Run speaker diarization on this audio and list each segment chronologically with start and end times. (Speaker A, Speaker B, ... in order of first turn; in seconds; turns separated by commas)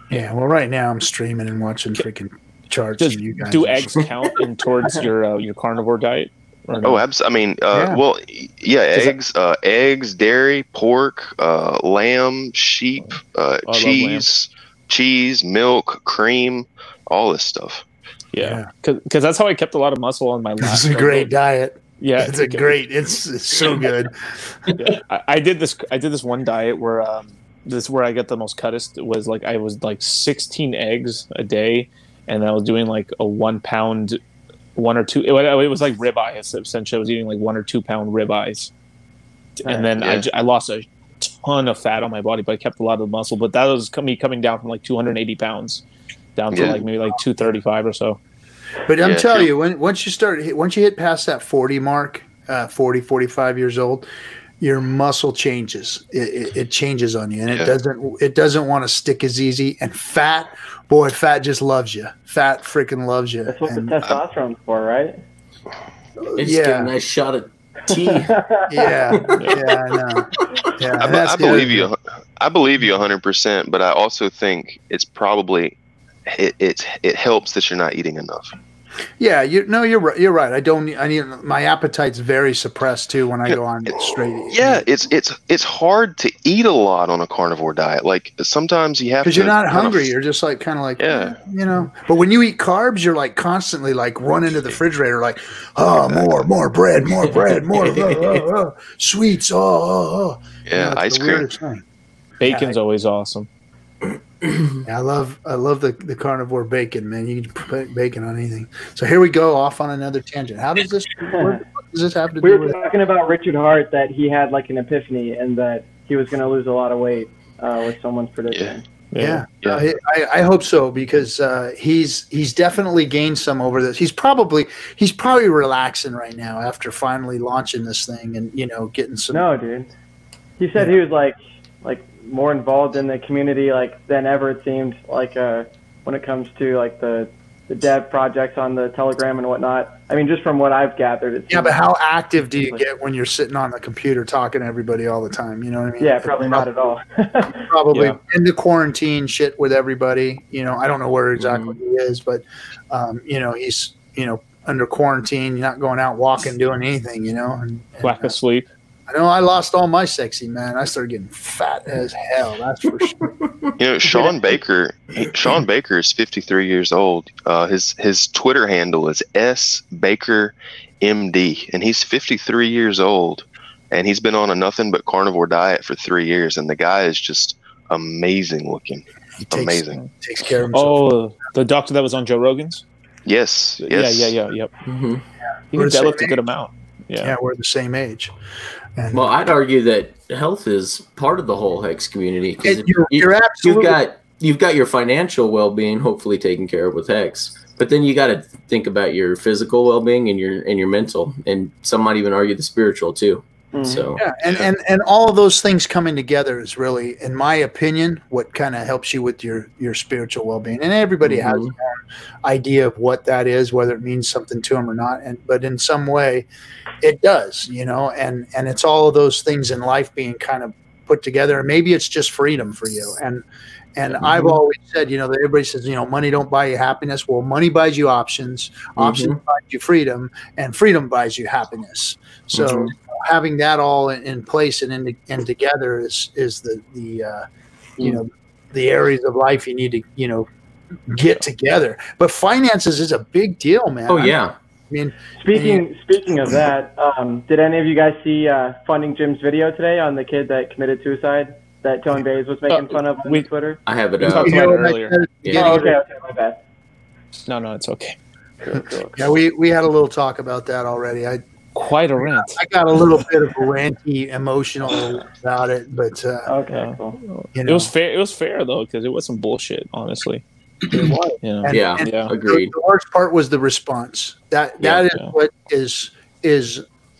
Speaker A: 0.1-3.9, Speaker B: 3.0-7.0, Speaker C: 6.8-17.8, Speaker A: 7.7-8.0, Speaker B: 13.7-14.2, Speaker B: 18.3-21.3, Speaker A: 18.4-18.7, Speaker A: 20.6-24.1, Speaker B: 22.0-22.8, Speaker B: 24.7-34.2, Speaker B: 34.8-38.7, Speaker B: 39.6-45.8, Speaker D: 39.6-39.9, Speaker C: 40.0-40.2, Speaker B: 46.4-48.2, Speaker C: 46.5-46.8, Speaker A: 48.9-54.1, Speaker C: 49.0-49.5, Speaker A: 54.6-64.0, Speaker D: 63.5-65.2, Speaker A: 66.2-66.9, Speaker E: 66.4-68.3, Speaker D: 67.9-69.0, Speaker A: 68.7-71.9, Speaker E: 69.1-69.4, Speaker C: 71.0-78.5, Speaker A: 79.2-84.8, Speaker C: 84.5-90.1, Speaker A: 89.2-101.8, Speaker C: 91.0-91.4, Speaker C: 96.0-96.3, Speaker E: 97.2-98.5, Speaker C: 100.7-101.5, Speaker B: 102.4-103.5, Speaker A: 102.4-102.8, Speaker E: 104.4-104.8, Speaker A: 104.8-112.8, Speaker D: 111.3-111.6, Speaker D: 112.4-118.8, Speaker C: 118.5-118.8, Speaker B: 119.1-119.5, Speaker A: 119.2-129.4, Speaker D: 129.3-129.9, Speaker D: 130.6-141.8, Speaker A: 141.5-146.7, Speaker D: 146.0-147.7, Speaker A: 147.7-158.3, Speaker B: 147.9-148.2, Speaker E: 151.4-151.8, Speaker B: 158.0-158.7, Speaker A: 159.1-163.3, Speaker E: 163.2-163.7, Speaker C: 163.8-180.0, Speaker A: 179.4-181.1, Speaker B: 180.7-182.8, Speaker C: 183.2-184.3, Speaker B: 183.8-184.7, Speaker E: 184.8-185.2, Speaker B: 185.7-187.3, Speaker A: 185.7-186.4, Speaker A: 187.2-188.3, Speaker A: 189.0-189.3, Speaker E: 189.1-204.2, Speaker A: 192.6-194.0, Speaker D: 203.7-204.1, Speaker A: 204.2-216.5, Speaker E: 211.2-211.7, Speaker A: 217.0-223.4, Speaker A: 223.9-237.4, Speaker E: 224.1-224.6, Speaker E: 229.0-229.4, Speaker E: 232.5-232.9, Speaker A: 238.0-240.5, Speaker A: 241.1-244.3, Speaker E: 244.1-244.6, Speaker A: 244.9-245.9, Speaker D: 245.4-253.8, Speaker B: 252.7-253.5, Speaker E: 253.9-254.6, Speaker B: 254.2-255.3, Speaker A: 254.2-255.9, Speaker E: 255.4-255.8, Speaker D: 255.5-256.6, Speaker B: 257.4-258.2, Speaker D: 258.6-259.2, Speaker A: 259.1-261.4, Speaker B: 261.8-262.6, Speaker A: 262.1-266.5, Speaker D: 266.5-267.2, Speaker B: 266.8-270.4, Speaker A: 267.5-267.9, Speaker A: 270.9-276.8, Speaker B: 271.1-272.3, Speaker E: 271.7-272.7